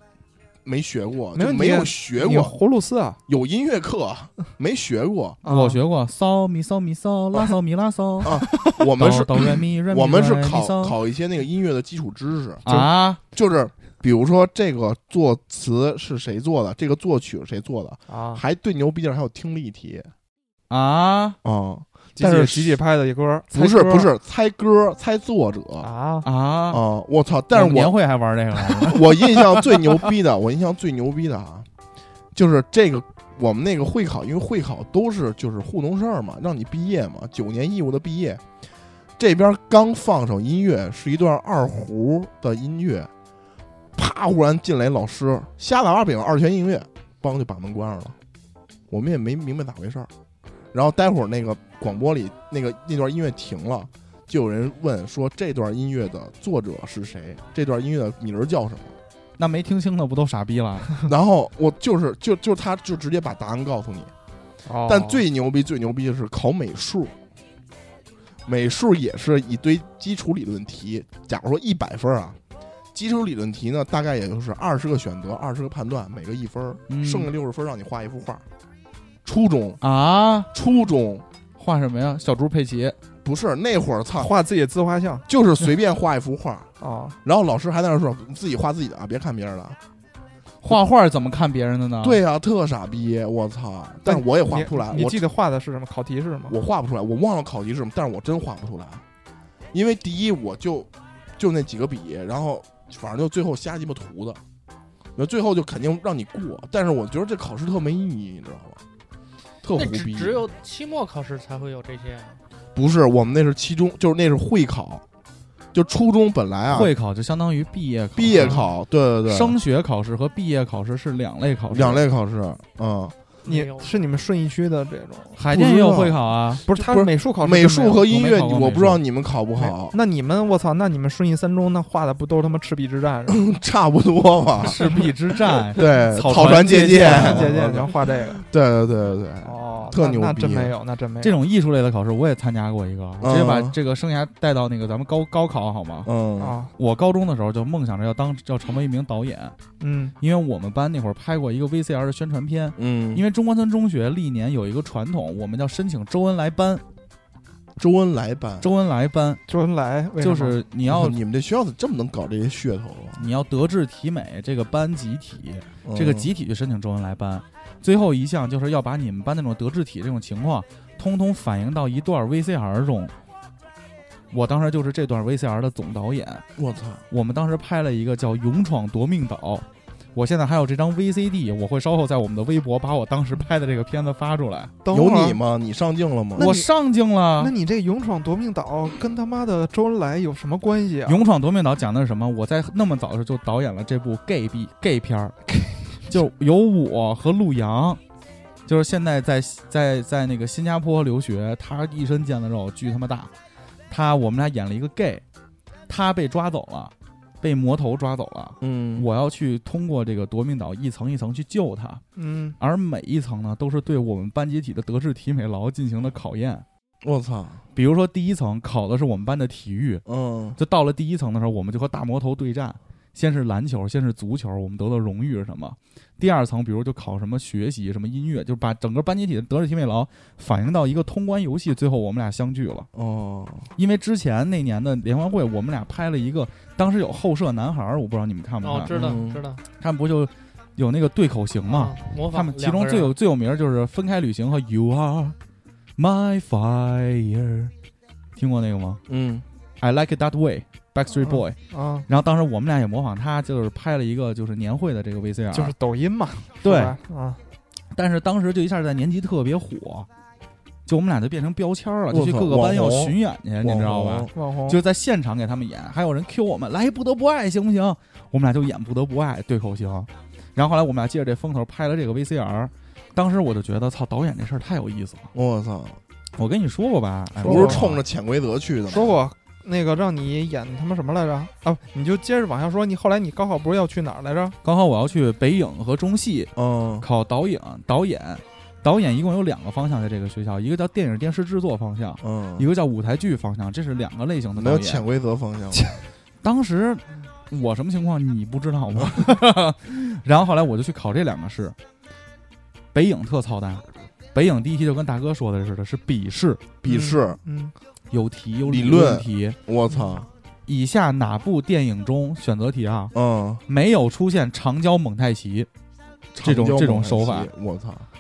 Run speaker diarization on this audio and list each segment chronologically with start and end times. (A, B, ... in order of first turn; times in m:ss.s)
0:00.6-0:02.6 A
0:01.4-0:03.2 B
0:03.3-0:05.4 A
0:05.4-0:05.8 B
0:05.5-0:11.0 C
0:08.2-0:20.1 A
0:12.6-0:13.2 C
0:18.1-0:18.4 B
0:20.7-0:21.4 C
0:21.4-0:22.8 A
0:22.2-0:24.1 B
0:23.5-0:25.9 A
0:25.8-0:26.3 B
0:26.2-0:26.8 C
0:26.7-0:28.0 A
0:27.5-0:29.6 C
0:28.6-0:31.7 A
0:32.3-0:38.4 A
0:39.2-0:43.1 A
0:44.0-0:48.2 A
0:48.9-0:50.1 A
0:50.7-0:59.0 A
0:59.4-1:01.0 C
1:01.1-1:04.1 A
1:04.6-1:05.2 B
1:04.8-1:07.1 A
1:08.5-1:12.4 A
1:12.9-1:18.4 A
1:16.9-1:17.3 C
1:19.2-1:19.8 A
1:19.8-1:20.5 C
1:20.5-1:21.2 A
1:21.6-1:23.0 C
1:23.2-1:24.3 A
1:24.2-1:25.2 B
1:25.3-1:26.7 A
1:26.8-1:27.2 B
1:27.2-1:29.8 A
1:30.6-1:32.2 C
1:32.0-1:35.2 A
1:34.0-1:36.6 B
1:36.5-1:39.0 A
1:39.7-1:44.4 A
1:45.2-1:48.8 A
1:49.6-1:50.4 A
1:49.8-1:52.4 D
1:52.8-1:55.0 A
1:55.7-1:56.9 A
1:56.7-1:58.7 C
1:58.2-1:59.6 A
1:59.3-2:02.0 C
2:01.7-2:03.2 A
2:03.4-2:04.0 D
2:03.4-2:05.4 B
2:05.4-2:06.6 C
2:05.5-2:10.0 A
2:06.7-2:08.0 B
2:08.0-2:09.0 C
2:09.6-2:13.5 B
2:13.4-2:14.9 A
2:14.6-2:17.6 C
2:15.7-2:20.8 A
2:16.3-2:18.4 B
2:19.4-2:21.4 B
2:21.2-2:26.1 C
2:23.2-2:23.8 A
2:26.0-2:26.6 A
2:26.4-2:26.7 B
2:26.8-2:29.6 C
2:29.8-2:30.2 B
2:30.2-2:36.8 C
2:32.8-2:33.2 A
2:37.8-2:38.7 A
2:38.6-2:39.4 C
2:39.5-2:40.6 B
2:40.2-2:41.2 C
2:40.9-2:43.3 A
2:43.2-2:53.1 C
2:45.8-2:46.3 A
2:54.3-2:56.4 C
2:56.6-2:57.0 A
2:57.1-3:04.7 C
3:04.8-3:05.4 B
3:04.9-3:06.6 A
3:06.4-3:06.7 B
3:06.4-3:07.5 C
3:07.4-3:11.2 B
3:11.1-3:15.4 C
3:16.1-3:18.0 C
3:18.7-3:23.3 C
3:23.9-3:25.2 C
3:25.9-3:32.0 C
3:28.6-3:29.1 A
3:32.2-3:32.6 B
3:32.6-3:36.6 C
3:37.0-3:37.7 A
3:37.8-3:40.0 C
3:40.1-3:40.6 A
3:40.6-3:52.9 C
3:52.9-3:53.7 A
3:53.8-3:59.2 C
3:58.6-3:59.6 D
3:58.9-3:59.4 A
3:59.8-4:05.4 C
4:01.7-4:03.1 D
4:06.0-4:07.7 C
4:08.4-4:09.0 C
4:09.1-4:09.4 A
4:09.8-4:15.7 C
4:11.1-4:12.1 B
4:15.5-4:17.4 B
4:16.6-4:17.0 C
4:17.9-4:20.1 C
4:20.9-4:35.3 C
4:22.1-4:24.3 A
4:24.3-4:24.8 B
4:35.3-4:36.0 A
4:36.4-4:38.0 C
4:37.4-4:37.8 B
4:37.4-4:39.2 A
4:38.9-4:44.6 B
4:44.6-4:55.0 C
4:46.6-4:47.1 A
4:52.2-4:52.7 A
4:54.6-4:56.0 A
4:56.4-5:01.8 C
5:02.9-5:06.7 C
5:06.8-5:07.4 A
5:06.8-5:07.7 B
5:08.1-5:09.6 C
5:08.6-5:10.3 A
5:10.7-5:13.1 C
5:13.1-5:13.6 A
5:13.7-5:15.7 C
5:16.4-5:18.1 A
5:16.4-5:17.5 C